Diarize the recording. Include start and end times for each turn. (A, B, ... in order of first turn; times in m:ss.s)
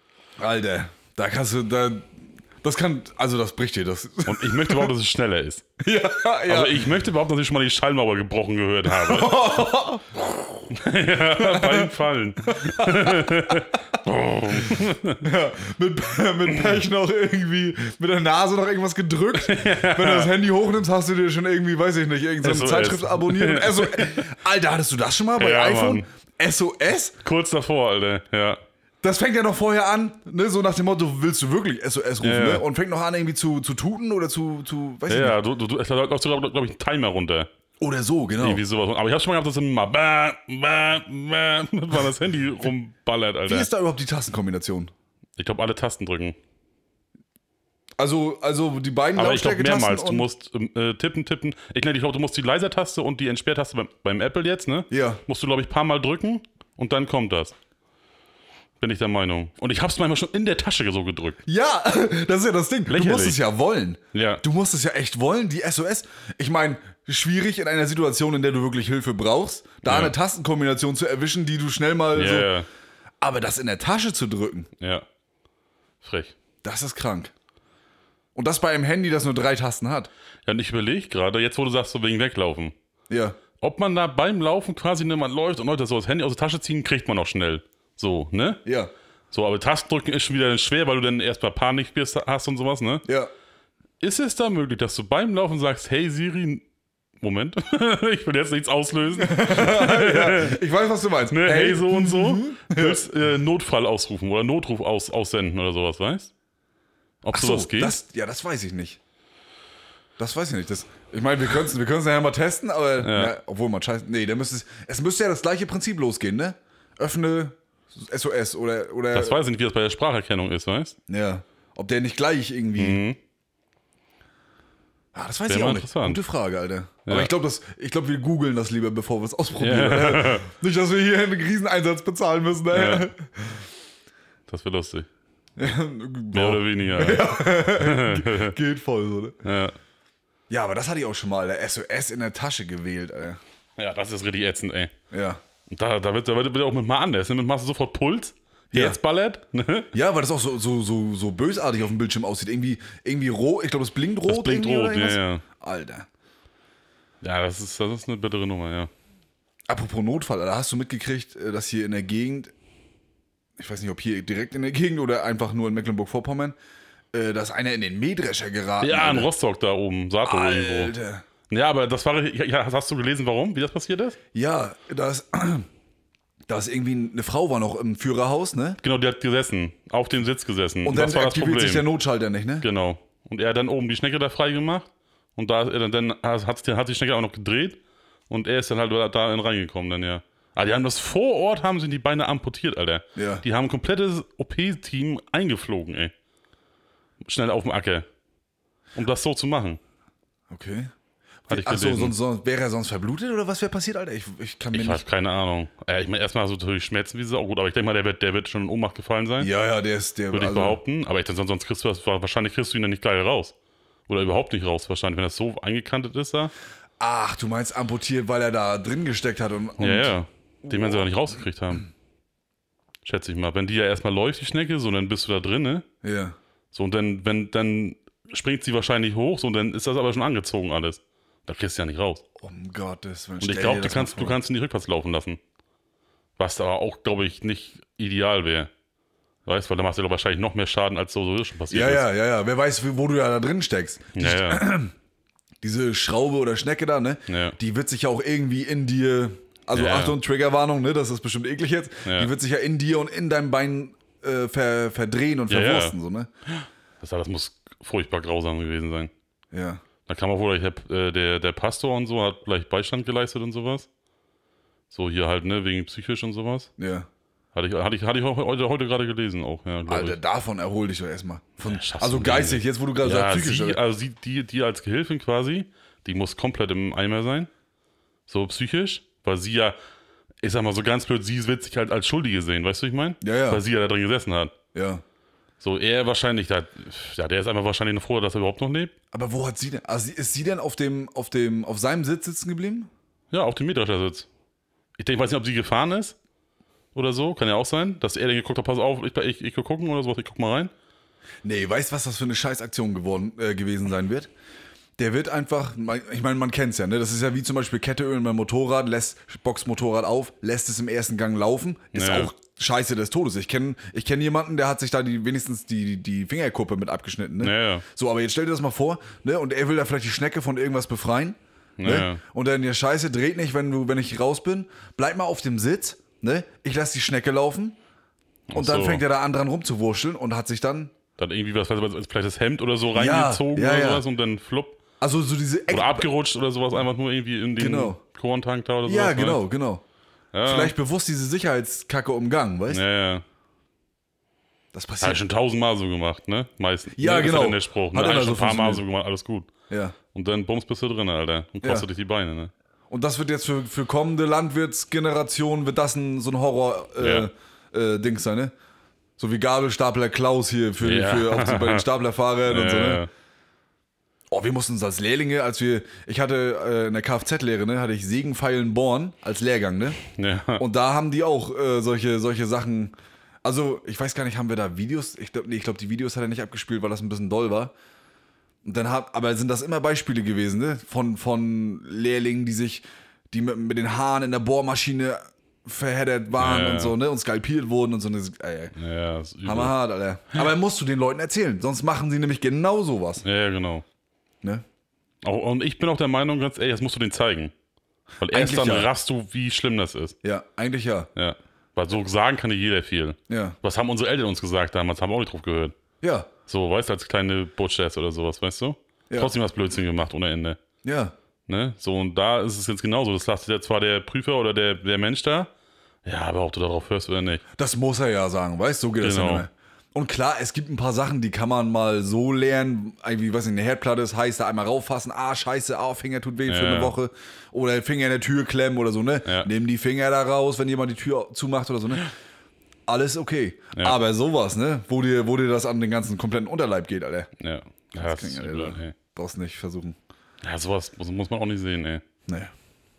0:00.4-0:04.9 A
0:04.2-0:05.7 B
0:05.8-0:06.9 A
0:06.4-0:09.5 B
0:08.9-0:10.7 A
0:10.7-0:15.2 B
0:11.4-0:11.9 A
0:12.5-0:13.6 A
0:14.6-0:27.2 A
0:19.3-0:20.3 B
0:22.4-0:24.2 B
0:25.4-0:26.0 B
0:27.2-0:28.6 B
0:29.0-0:35.4 A
0:32.2-0:32.6 B
0:35.1-0:37.5 B
0:37.8-0:38.6 A
0:38.4-0:43.7 B
0:43.5-0:44.9 A
0:45.4-0:46.4 B
0:48.0-0:50.3 A
0:49.2-0:57.5 B
0:54.9-0:55.2 A
0:58.8-1:01.4 B
1:01.4-1:12.5 A
1:02.9-1:03.4 B
1:04.1-1:04.4 B
1:09.8-1:10.1 B
1:12.1-1:12.6 B
1:13.2-1:14.7 A
1:14.8-1:15.0 B
1:16.0-1:16.3 B
1:16.6-1:17.3 A
1:18.3-1:20.1 A
1:20.4-1:22.7 B
1:23.1-1:23.4 A
1:23.6-1:28.6 B
1:28.6-1:28.9 A
1:29.3-1:33.0 B
1:34.0-1:36.6 B
1:37.2-1:40.6 B
1:39.2-1:43.0 A
1:41.3-1:46.3 B
1:47.2-1:48.0 B
1:47.3-1:49.0 A
1:50.2-1:59.4 A
1:53.0-1:53.3 B
1:59.1-2:01.0 B
2:01.1-2:03.0 A
2:02.8-2:03.2 B
2:05.1-2:13.6 A
2:05.5-2:06.2 B
2:07.0-2:07.3 B
2:09.6-2:10.5 B
2:12.7-2:13.1 B
2:14.5-2:15.1 B
2:15.6-2:19.4 A
2:16.3-2:18.6 B
2:19.4-2:19.7 B
2:20.5-2:23.4 A
2:23.8-2:24.9 B
2:25.1-2:25.4 A
2:25.7-2:29.9 B
2:28.7-2:29.0 A
2:29.9-2:36.1 A
2:34.3-2:35.4 B
2:37.2-2:38.9 B
2:39.7-2:42.5 A
2:43.6-2:46.5 A
2:47.1-2:49.3 A
2:48.8-2:50.9 B
2:50.2-2:51.2 A
2:51.5-2:54.2 B
2:54.3-2:55.7 A
2:56.5-2:58.8 A
2:58.8-3:01.9 B
3:00.8-3:02.6 A
3:02.6-3:16.1 B
3:13.1-3:13.4 A
3:17.2-3:18.1 B
3:18.9-3:19.8 B
3:20.5-3:20.9 A
3:21.5-3:25.0 A
3:21.5-3:22.1 B
3:24.7-3:29.5 B
3:29.4-3:30.8 A
3:30.3-3:33.5 B
3:34.1-3:36.5 B
3:37.0-3:40.1 A
3:39.8-3:41.9 B
3:40.7-3:41.0 A
3:43.0-3:45.8 B
3:46.0-3:46.4 A
3:46.7-3:52.2 B
3:52.4-3:54.4 A
3:53.4-3:55.4 B
3:56.4-3:58.7 B
3:59.4-4:02.1 B
4:01.7-4:04.9 A
4:04.2-4:04.6 B
4:05.6-4:16.3 A
4:07.3-4:07.6 B
4:09.7-4:10.2 B
4:12.0-4:12.3 B
4:15.5-4:16.0 B
4:16.6-4:19.1 B
4:19.5-4:19.8 A
4:20.1-4:23.9 B
4:24.9-4:26.7 B
4:26.8-4:27.1 A
4:27.5-4:30.2 B
4:29.9-4:33.8 A
4:31.6-4:37.5 B
4:38.3-4:39.8 B
4:40.4-4:44.5 B
4:43.2-4:43.6 A
4:44.7-4:45.0 A
4:45.6-4:48.9 B
4:49.1-4:52.9 A
4:53.3-4:54.3 B
4:55.0-4:56.2 B
4:56.9-5:00.7 B
5:01.4-5:04.3 A
5:05.0-5:27.8 A
5:11.9-5:12.3 B
5:17.4-5:17.8 B
5:21.8-5:22.2 B
5:28.5-5:29.0 B
5:28.5-5:30.9 A
5:31.2-5:34.8 B
5:32.9-5:34.0 A
5:35.0-5:36.1 A
5:35.7-5:39.4 B
5:37.6-5:38.0 A
5:38.8-5:39.8 A
5:40.3-5:40.7 B
5:40.4-5:42.8 A
5:42.7-5:43.2 B
5:44.7-5:45.2 A
5:45.0-5:49.5 B
5:47.0-5:48.8 A
5:49.7-5:49.9 A
5:50.1-5:52.5 B
5:52.9-5:58.5 A
5:57.0-5:57.3 B
5:59.2-6:03.0 A
6:00.8-6:01.8 B
6:02.5-6:03.1 B
6:04.3-6:10.0 A
6:10.1-6:10.6 B
6:10.6-6:12.9 A
6:13.4-6:17.7 A
6:18.6-6:28.7 A
6:26.4-6:26.9 B
6:28.7-6:29.7 B
6:29.4-6:33.2 A
6:33.2-6:33.8 B
6:35.2-6:37.5 B
6:38.2-6:40.2 B
6:38.3-6:38.9 A
6:40.2-6:41.1 A
6:41.2-6:45.8 B
6:43.3-6:43.6 A
6:46.0-6:46.3 A
6:46.5-6:50.6 B
6:50.8-6:51.1 A
6:51.5-6:55.5 B
6:56.0-6:57.4 B
6:57.6-7:12.1 A
6:59.0-6:59.4 B
7:06.5-7:06.9 B
7:12.9-7:17.3 A
7:17.4-7:19.0 B
7:17.9-7:20.0 A
7:20.4-7:22.0 B